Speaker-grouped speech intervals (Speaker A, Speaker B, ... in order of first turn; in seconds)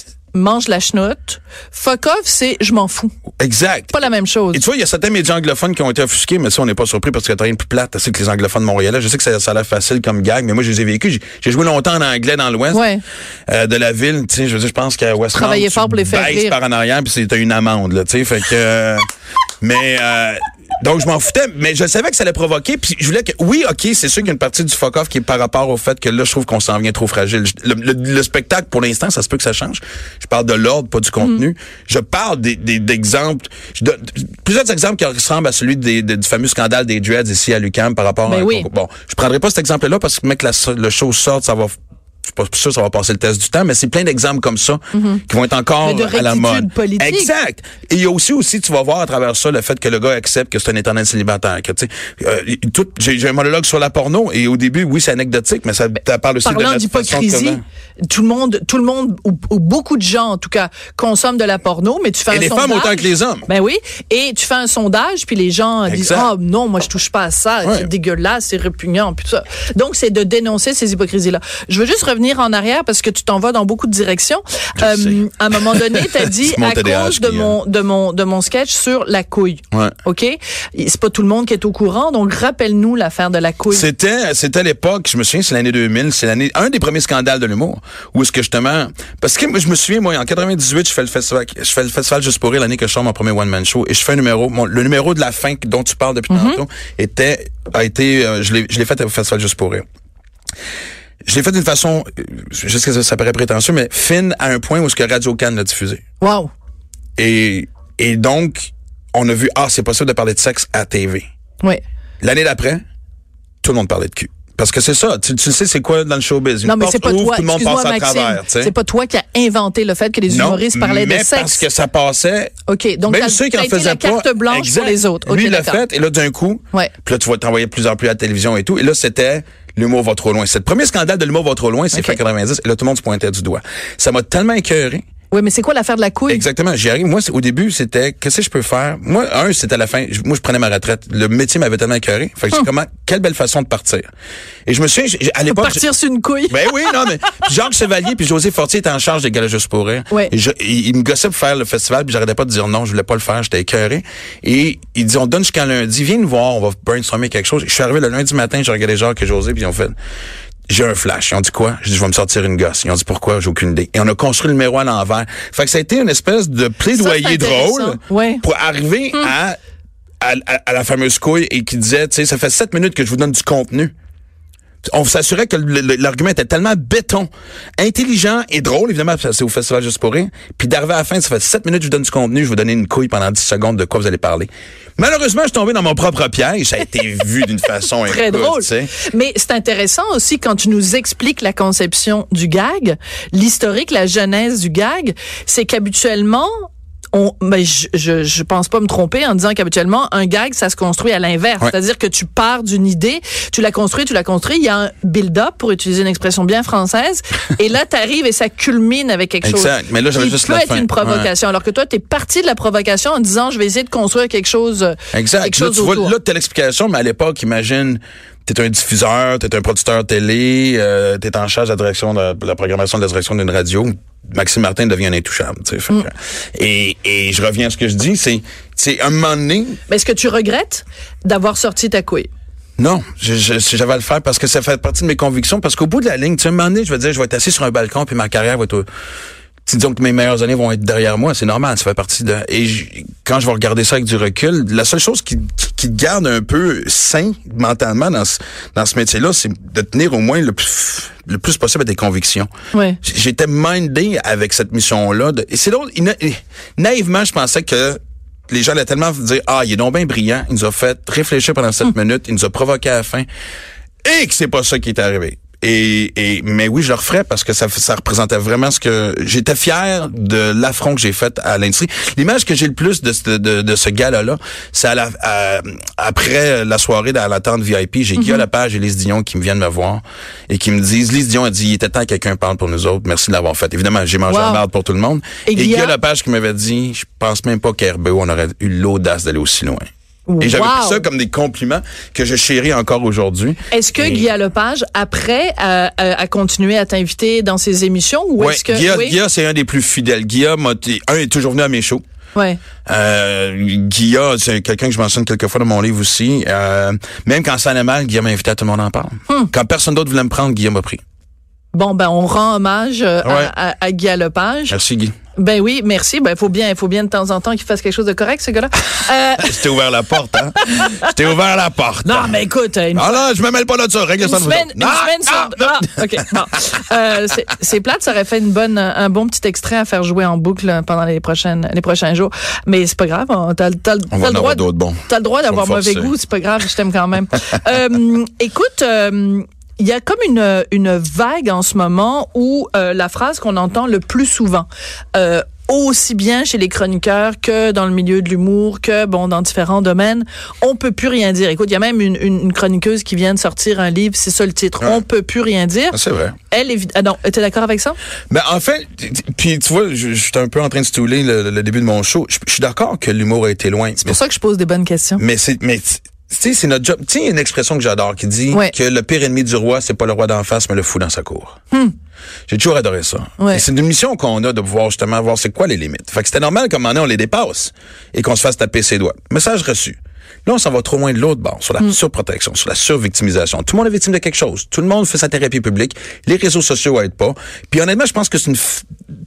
Speaker A: 0.3-3.1, 3.9-4.6, 12.7-13.0, 15.3-16.6, 38.3-38.7, 44.9-45.2, 45.8-47.3, 56.5-83.9, 96.3-96.6, 106.2-106.5, 116.7-121.7, 122.7-125.8, 135.3-136.4, 145.5-147.3, 167.0-168.4, 188.1-216.1, 229.9-232.3, 252.7-253.0, 278.2-278.4, 284.3-284.6, 285.5-285.9, 290.3-291.0, 293.7-299.2, 302.4-302.6, 311.7-314.8, 315.4-319.6, 320.6-321.1, 322.1-323.3, 324.2-356.0, 356.5-358.0, 364.0-365.2, 373.4-373.6
Speaker B: 3.4-4.0, 4.5-12.9, 13.5-19.0, 19.6-57.6, 62.3-63.5, 65.9-66.3, 67.6-67.9, 74.8-77.6, 83.7-99.8, 101.2-106.0, 107.2-111.3, 112.2-112.8, 113.6-118.7, 120.3-122.5, 123.1-135.0, 136.3-144.1, 144.7-145.8, 146.5-159.9, 160.7-169.6, 170.2-173.9, 174.8-188.9, 209.4-211.3, 215.1-229.8, 232.8-238.8, 239.7-252.5, 253.0-263.3, 264.0-289.9, 290.4-294.3, 298.4-302.0, 302.9-311.0, 313.2-313.5, 314.7-315.1, 319.4-322.4, 322.9-326.3, 334.1-336.1, 355.9-356.4, 358.3-364.2, 365.2-371.6, 372.5-388.9